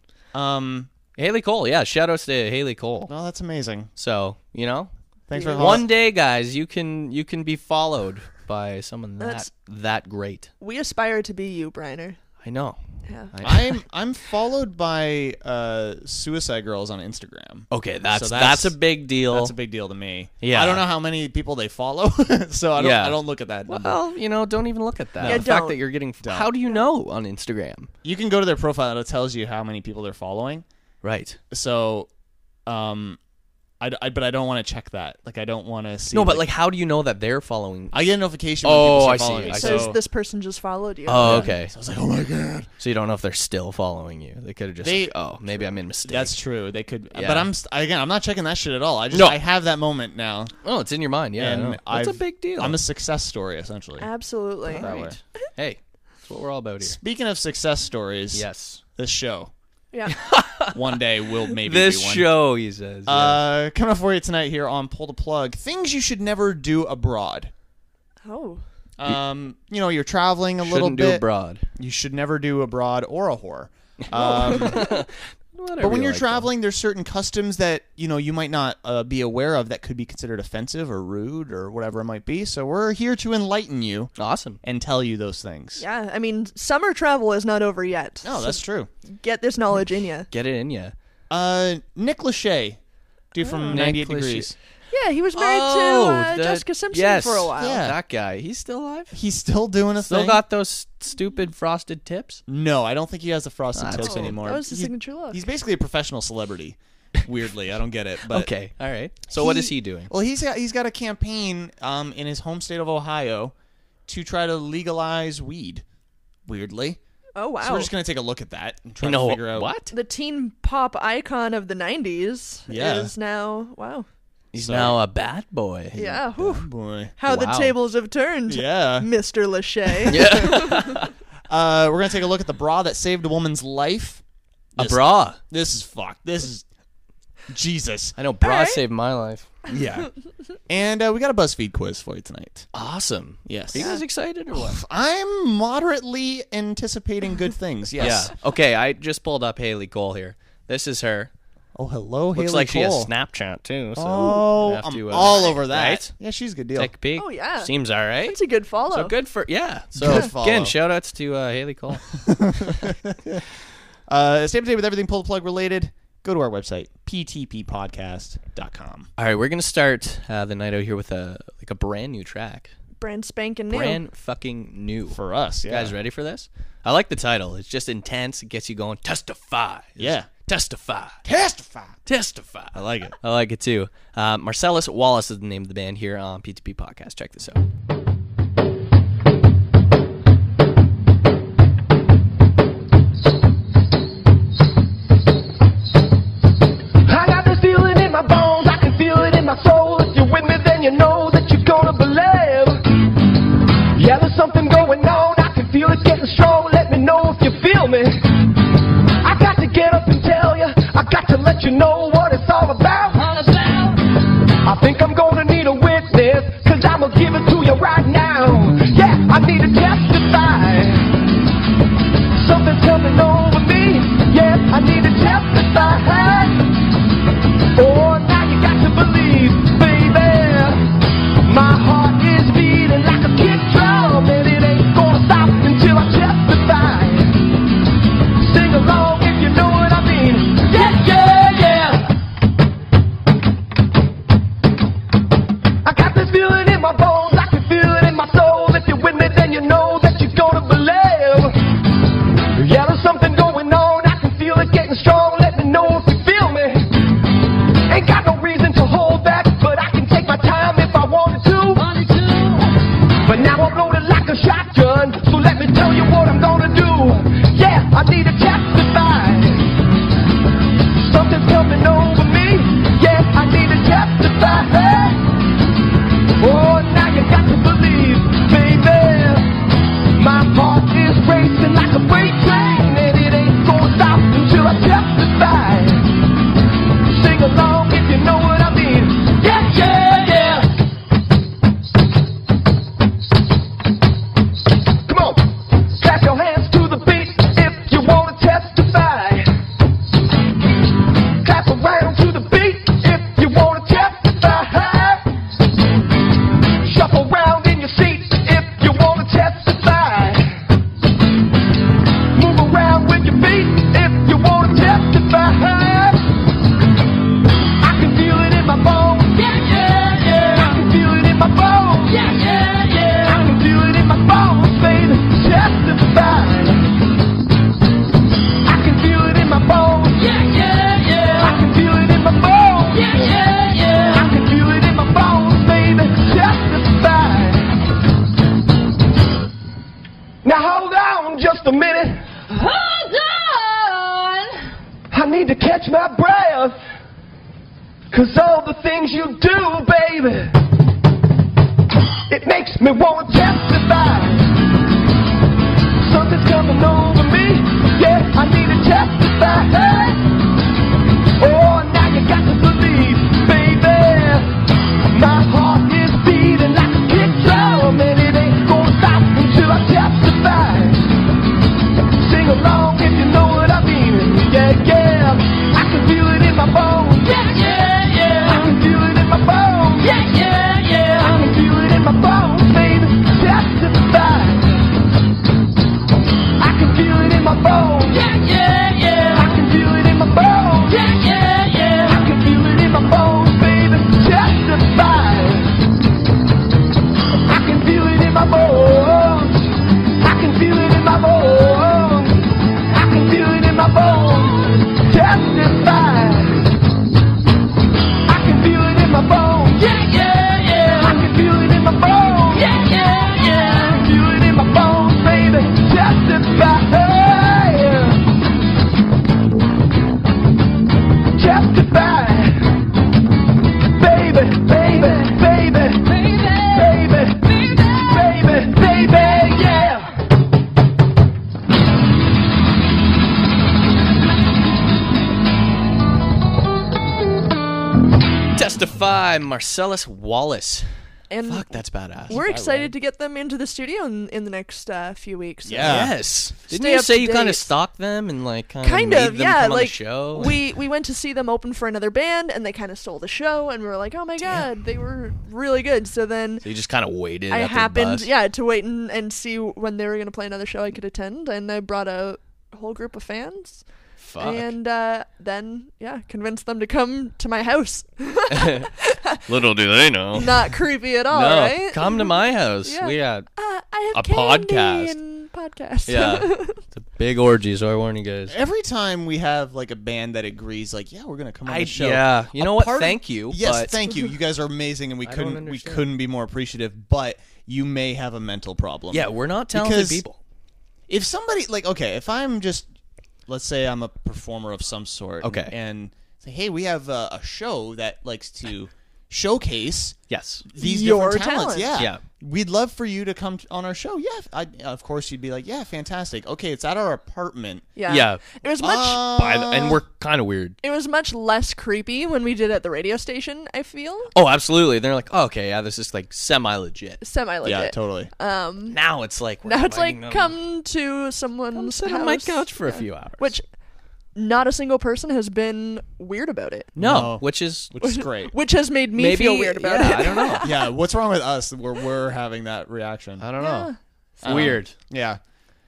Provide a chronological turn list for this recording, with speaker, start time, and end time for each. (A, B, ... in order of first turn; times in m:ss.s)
0:00.3-0:00.9 A
0:01.2-0:03.1 B
0:03.1-0:03.9 A
0:04.0-0:04.9 B
0:05.3-0:05.9 A
0:05.3-0:05.8 C
0:05.6-0:10.5 B
0:09.2-0:09.5 C
0:10.6-0:12.2 C
0:12.4-0:12.8 B
0:13.0-0:13.3 C
0:13.3-0:13.8 B
0:13.4-0:24.0 A
0:17.7-0:19.6 B
0:20.4-0:20.8 B
0:22.8-0:27.9 B
0:25.2-0:25.6 A
0:25.2-0:25.8 C
0:26.2-0:26.5 A
0:28.0-0:30.6 A
0:31.0-0:31.4 B
0:31.5-0:32.1 A
0:32.6-0:33.2 A
0:33.8-0:36.5 A
0:36.1-0:38.0 B
0:37.9-0:40.0 A
0:38.6-0:40.0 B
0:39.4-0:41.5 C
0:41.1-0:41.7 B
0:41.2-0:42.7 A
0:42.8-0:46.4 B
0:44.8-0:50.5 A
0:47.1-0:47.5 B
0:49.1-0:49.4 B
0:50.6-0:52.8 B
0:51.4-0:54.1 A
0:54.0-0:55.0 C
0:54.6-0:55.2 A
0:54.7-0:57.0 B
0:56.8-0:59.5 A
0:58.3-0:58.8 B
1:00.1-1:00.8 B
1:00.7-1:02.3 A
1:01.6-1:03.4 B
1:03.0-1:07.5 A
1:08.2-1:08.6 C
1:09.0-1:14.9 A
1:10.6-1:11.6 B
1:14.0-1:16.5 B
1:14.1-1:14.9 C
1:15.8-1:24.1 A
1:24.2-1:24.6 B
1:24.6-1:25.8 A
1:25.8-1:30.3 C
1:28.2-1:28.9 A
1:30.3-1:30.9 B
1:31.3-1:32.8 A
1:33.3-1:34.5 A
1:33.4-1:33.8 C
1:33.7-1:34.5 B
1:34.9-1:37.8 C
1:35.4-1:39.1 B
1:37.6-1:38.0 A
1:39.1-1:40.4 A
1:40.0-1:42.4 B
1:42.5-1:48.5 A
1:43.7-1:44.4 B
1:44.0-1:45.4 C
1:48.3-1:50.1 B
1:49.3-1:53.5 A
1:54.1-1:55.8 A
1:56.4-1:57.0 A
1:57.4-1:57.9 C
1:57.6-1:59.7 A
1:59.0-1:59.9 B
1:59.9-2:04.1 C
2:02.7-2:03.1 A
2:04.5-2:06.0 B
2:04.5-2:05.0 A
2:05.9-2:07.2 A
2:05.9-2:11.0 C
2:07.2-2:07.7 B
2:08.5-2:09.1 A
2:10.0-2:10.8 A
2:10.1-2:11.1 B
2:11.5-2:14.2 A
2:14.8-2:16.6 A
2:14.8-2:15.4 B
2:17.5-2:18.2 A
2:18.2-2:19.5 B
2:18.4-2:18.8 C
2:19.7-2:20.1 A
2:20.7-2:22.7 A
2:22.7-2:24.8 B
2:23.4-2:23.9 A
2:24.5-2:28.3 A
2:28.0-2:31.3 B
2:31.7-2:33.1 A
2:32.3-2:36.1 B
2:34.0-2:36.9 A
2:35.2-2:35.5 C
2:36.8-2:38.4 B
2:37.1-2:39.2 C
2:38.9-2:42.1 B
2:40.0-2:40.8 A
2:42.1-2:43.4 A
2:44.1-2:49.1 A
2:49.2-2:52.7 B
2:53.0-2:54.0 C
2:53.7-3:01.2 B
2:55.1-2:55.9 A
3:00.0-3:00.3 A
3:01.2-3:02.0 A
3:02.0-3:07.6 B
3:02.7-3:03.2 A
3:17.0-3:22.8 D
3:23.9-3:28.3 D
3:29.2-3:34.0 D
3:34.6-3:41.2 D
3:42.3-3:46.7 D
3:47.7-3:50.9 D
3:51.4-3:57.4 D
3:58.4-4:02.1 D
4:05.8-4:11.6 D
4:12.5-4:16.9 D
4:17.9-4:22.6 D
4:23.2-4:29.7 D
4:31.0-4:35.2 D
4:36.4-4:39.5 D
4:40.2-4:46.1 D
4:47.0-4:50.7 D
4:55.1-4:59.5 D
5:01.4-5:05.2 D
5:06.8-5:10.6 D
5:12.3-5:16.3 D
5:17.8-5:26.9 D
5:28.6-5:37.8 D
5:40.4-5:44.4 D
5:45.1-5:46.8 D
5:48.1-5:50.5 D
5:52.3-5:54.6 D
5:56.0-6:00.2 D
6:01.4-6:11.1 D
6:12.2-6:24.9 D
6:26.6-6:35.8 D
6:37.4-6:46.7 D
6:48.2-6:58.2 D
7:01.4-7:02.7 D
7:03.9-7:10.1 D
7:18.5-7:20.9 B
7:21.3-7:26.1 C
7:21.4-7:22.4 B
7:22.3-7:22.9 A
7:25.6-7:26.2 A
7:25.8-7:30.6 B
7:26.7-7:27.7 C
7:28.8-7:36.6 C
7:36.6-7:38.3 B
7:37.5-7:43.8 C
7:44.2-7:44.7 B
7:44.4-7:49.4 C
7:48.5-7:48.9 B
7:49.5-7:53.4 B
7:50.3-7:56.8 C
7:54.1-7:55.2 B
7:56.0-7:58.6 B
7:58.5-8:10.2 A
8:01.6-8:03.9 B
8:05.2-8:06.1 B
8:09.1-8:10.4 B
8:11.1-8:12.9 A
8:13.5-8:27.9 A
8:15.4-8:15.7 B
8:20.3-8:20.6 B
8:20.8-8:22.0 C
8:22.0-8:22.2 B
8:28.0-8:29.3 C
8:28.1-8:28.4 B
8:28.8-8:30.0 A
8:29.3-8:30.8 B
8:30.8-8:34.3 C
8:34.3-8:37.2 B
8:37.2-8:39.0 C
8:37.6-8:38.3 A
8:38.9-8:40.6 B
8:39.6-8:43.6 C
8:41.7-8:43.6 B
8:44.3-8:46.9 C
8:47.0-8:47.9 B
8:47.0-8:48.5 A
8:48.0-8:50.9 C
8:49.2-8:50.7 B
8:50.6-8:53.4 A
8:53.4-8:53.9 B
8:53.6-8:54.0 C
8:54.4-8:55.4 A
8:54.4-8:54.9 B